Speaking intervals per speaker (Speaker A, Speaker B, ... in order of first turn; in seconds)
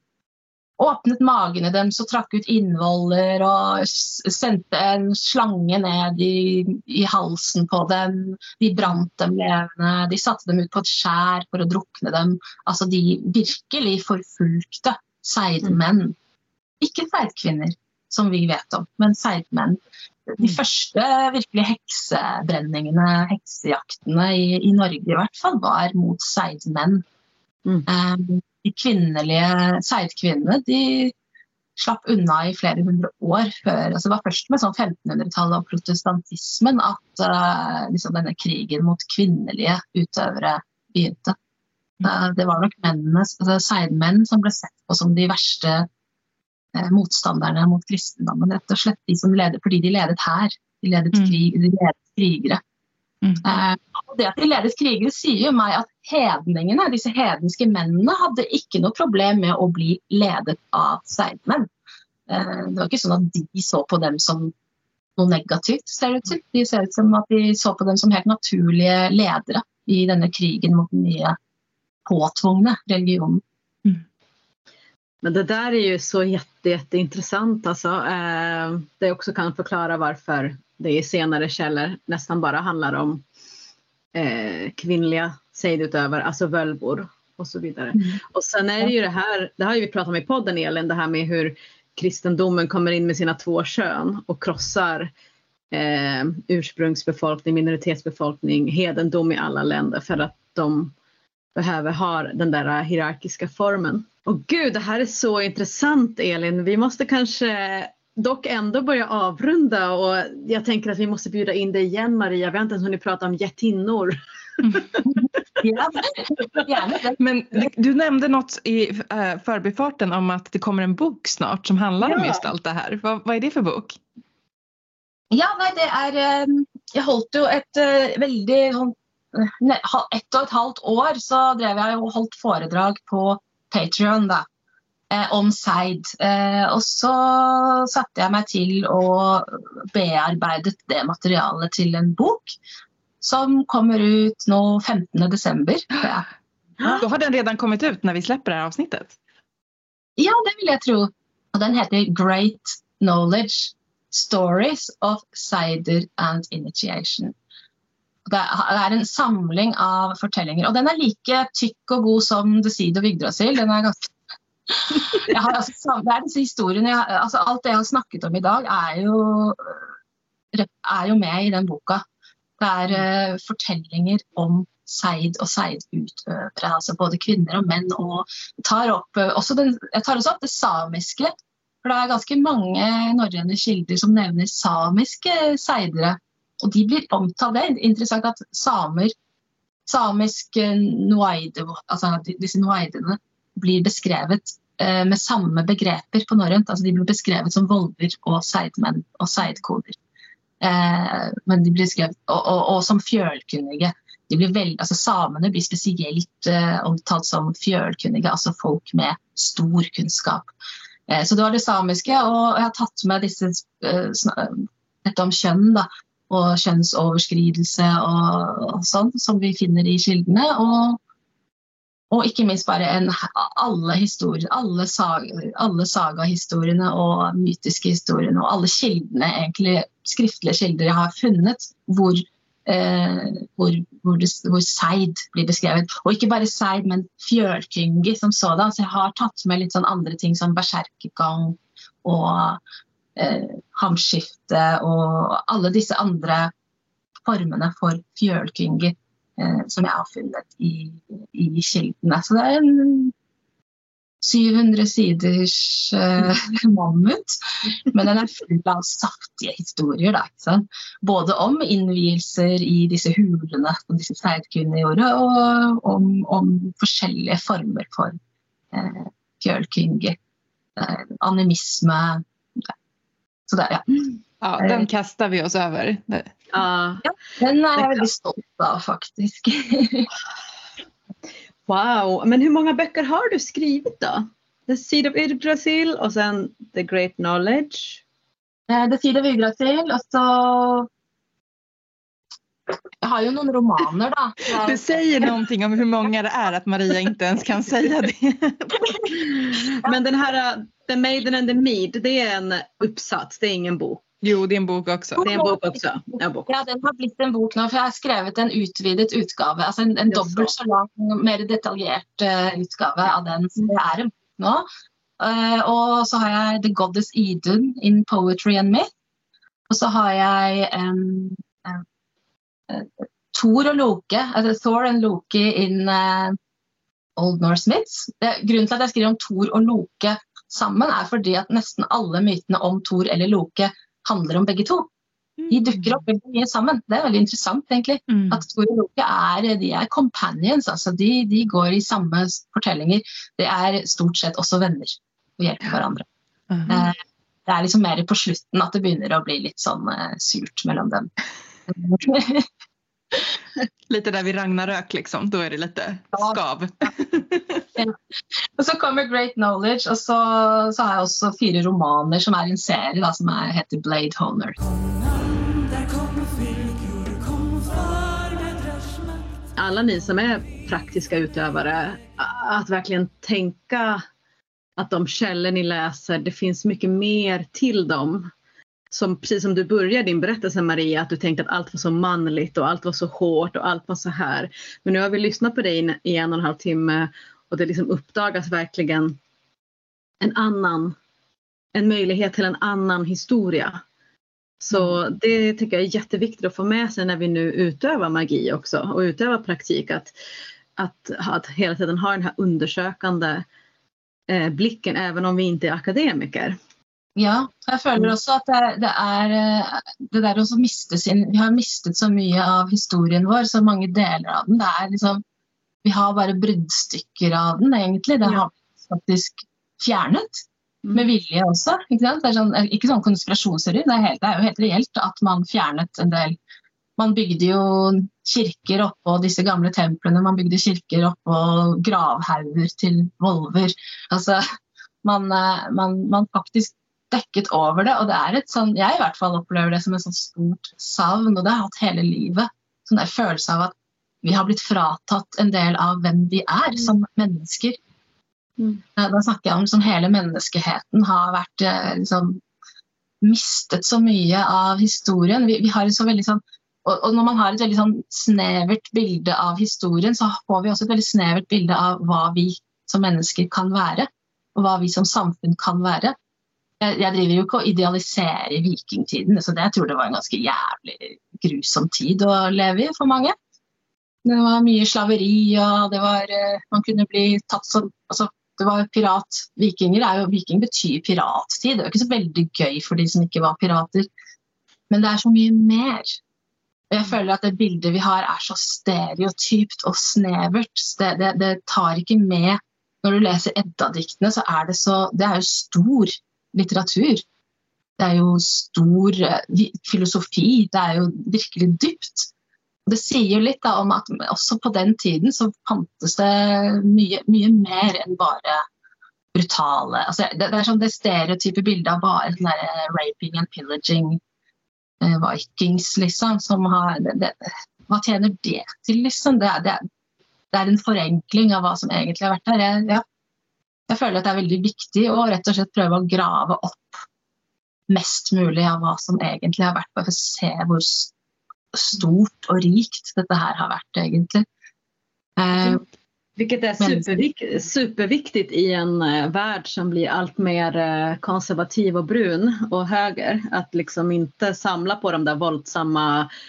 Speaker A: 0.8-16.2, 16.8-27.0, 27.9-31.1, 31.8-41.4, 42.0-45.9, 46.8-52.6, 53.4-61.7, 62.3-64.5, 65.2-71.4, 72.1-73.4, 115.0-117.2, 125.3-134.5, 135.1-142.6, 143.2-146.3, 150.2-157.3, 158.3-164.1, 164.7-169.8, 170.5-172.0, 172.6-189.1, 189.9-200.0, 200.6-210.5, 211.1-221.0, 222.1-242.6, 243.2-246.5, 247.2-253.1, 254.2-268.2, 268.7-270.2, 270.8-272.7, 273.5-273.9, 274.6-274.9, 277.0-280.1, 288.7-290.9, 293.0-294.8, 305.2-305.6, 306.5-314.7, 315.2-318.9, 319.7-321.8, 322.7-326.4, 327.2-334.9, 335.5-346.1, 346.7-346.9, 347.5-351.1, 351.7-352.5, 358.6-364.6, 407.2-415.2, 415.9-426.4, 427.0-434.4, 435.0-447.8, 449.0-452.4, 453.2-466.1, 466.8-473.4, 474.2-484.1, 484.9-486.2, 486.9-497.2, 498.0-502.3, 502.9-508.6, 509.4-514.2, 515.0-519.8, 520.5-523.0, 523.9-527.0, 527.9-531.1, 531.7-534.5, 535.4-535.8, 536.8-537.2
Speaker B: 51.1-51.4, 114.6-115.0, 117.2-124.0, 147.0-149.2, 274.4-276.4, 294.5-299.2, 304.2-305.3, 335.4-336.0, 338.1-338.4, 346.5-346.9, 353.9-357.6
Speaker C: 75.2-83.2, 84.1-95.1, 95.7-100.9, 101.5-114.2, 122.0-122.5, 276.5-277.0, 281.7-288.0, 299.2-304.1, 305.2-306.5, 310.1-310.5, 369.6-374.0, 374.8-378.3, 378.9-389.2, 390.2-391.0, 391.7-393.8, 394.6-400.1, 400.8-403.4, 404.3-406.6, 536.4-546.3